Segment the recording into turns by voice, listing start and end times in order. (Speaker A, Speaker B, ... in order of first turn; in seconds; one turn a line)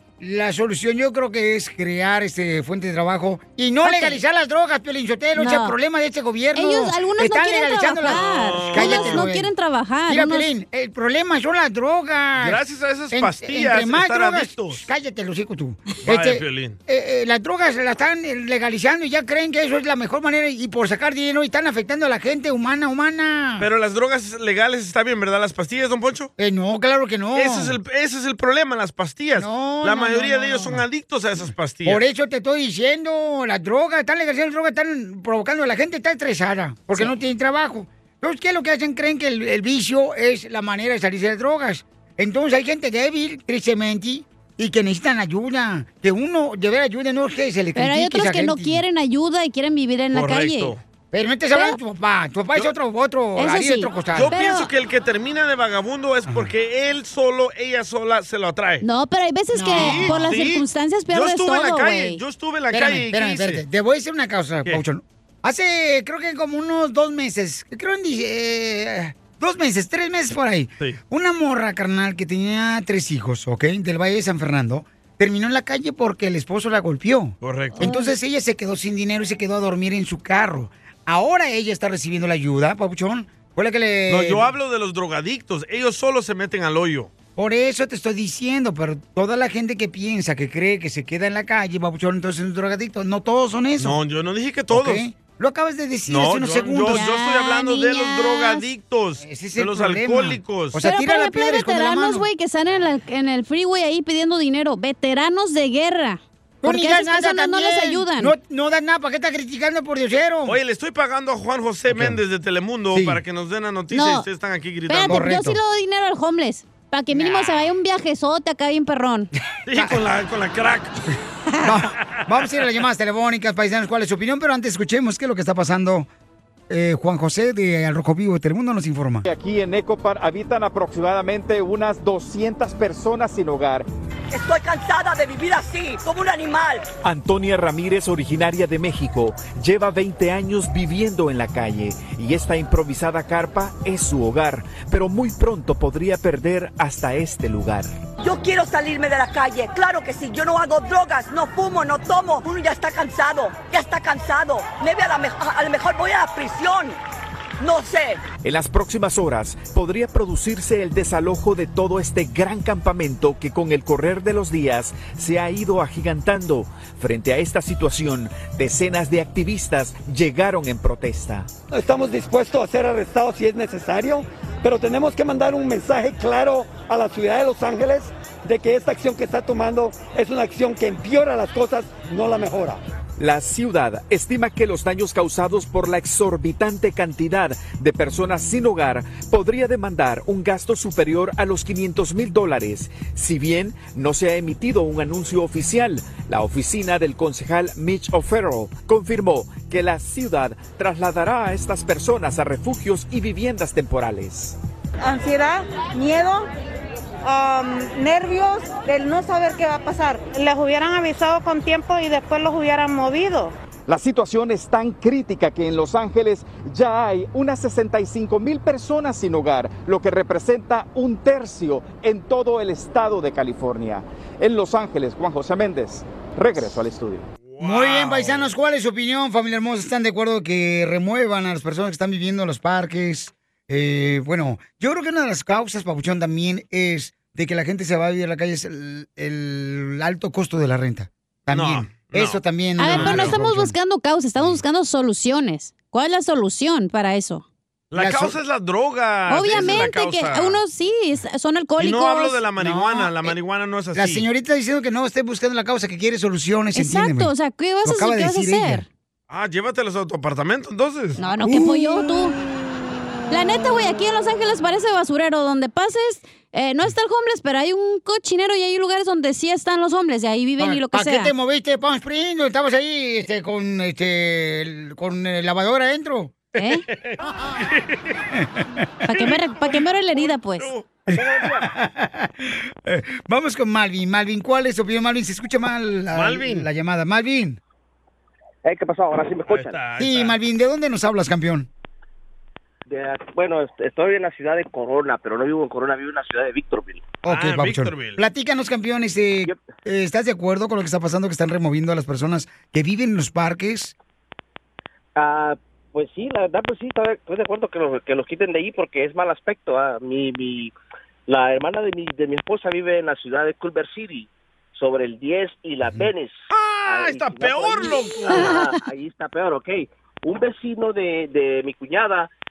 Speaker A: 0.2-9.5
Speaker B: 3.8-4.2
Speaker B: 5.4-5.7
Speaker B: 6.5-10.5
Speaker C: 8.1-9.2
Speaker A: 10.1-12.6
Speaker C: 12.4-14.8
Speaker A: 13.1-23.7
Speaker C: 16.0-16.8
Speaker C: 23.6-26.3
Speaker A: 26.4-27.7
Speaker C: 27.3-32.0
Speaker A: 29.4-30.8
Speaker A: 31.8-48.8
Speaker B: 47.8-50.7
Speaker C: 50.1-50.8
Speaker A: 51.1-54.3
Speaker B: 53.4-54.7
Speaker C: 54.1-58.8
Speaker B: 58.8-62.2
Speaker A: 59.5-60.3
Speaker C: 59.7-63.6
Speaker A: 62.7-84.5
Speaker C: 77.4-77.9
Speaker B: 77.7-78.1
Speaker C: 84.1-87.1
Speaker A: 87.4-94.0
Speaker C: 93.8-95.0
Speaker A: 94.7-97.0
Speaker C: 96.1-100.8
Speaker B: 96.9-98.7
Speaker A: 99.2-102.2
Speaker B: 100.8-108.3
Speaker A: 106.6-110.6
Speaker C: 110.5-115.2
Speaker A: 111.9-112.2
Speaker A: 112.9-113.2
Speaker B: 113.9-114.2
Speaker B: 114.9-119.3
Speaker A: 115.1-115.6
Speaker A: 117.1-117.6
Speaker C: 119.7-121.0
Speaker A: 121.1-126.1
Speaker A: 126.7-129.2
Speaker D: 129.2-133.9
Speaker E: 134.3-136.8
Speaker D: 137.0-147.9
Speaker E: 148.2-157.0
Speaker E: 157.6-158.2
Speaker D: 158.4-171.5
Speaker F: 171.7-182.8
Speaker D: 183.2-204.6
Speaker G: 205.0-206.5
Speaker G: 207.2-213.6
Speaker D: 213.9-227.3
Speaker C: 227.4-228.5
Speaker A: 227.6-243.7
Speaker C: 241.5-243.4
Speaker B: 242.8-247.4
Speaker C: 247.9-250.6
Speaker A: 247.9-248.3
Speaker B: 249.3-252.4
Speaker C: 251.8-254.2
Speaker A: 252.6-253.3
Speaker A: 253.9-257.3
Speaker B: 256.7-258.9
Speaker A: 257.8-258.8
Speaker C: 259.3-261.2
Speaker B: 261.2-262.4
Speaker A: 261.4-262.6
Speaker B: 263.3-271.3
Speaker A: 270.6-276.3
Speaker B: 276.6-276.8
Speaker C: 276.9-278.0
Speaker A: 278.3-278.6
Speaker B: 279.1-280.7
Speaker C: 279.2-280.9
Speaker H: 281.1-281.6
Speaker A: 281.1-287.6
Speaker C: 286.1-286.7
Speaker H: 288.6-289.8
Speaker C: 289.5-290.4
Speaker A: 290.0-291.7
Speaker H: 292.9-297.1
Speaker A: 297.2-303.9
Speaker C: 297.2-298.2
Speaker H: 305.1-310.7
Speaker H: 311.3-322.3
Speaker C: 316.5-318.6
Speaker B: 318.3-318.6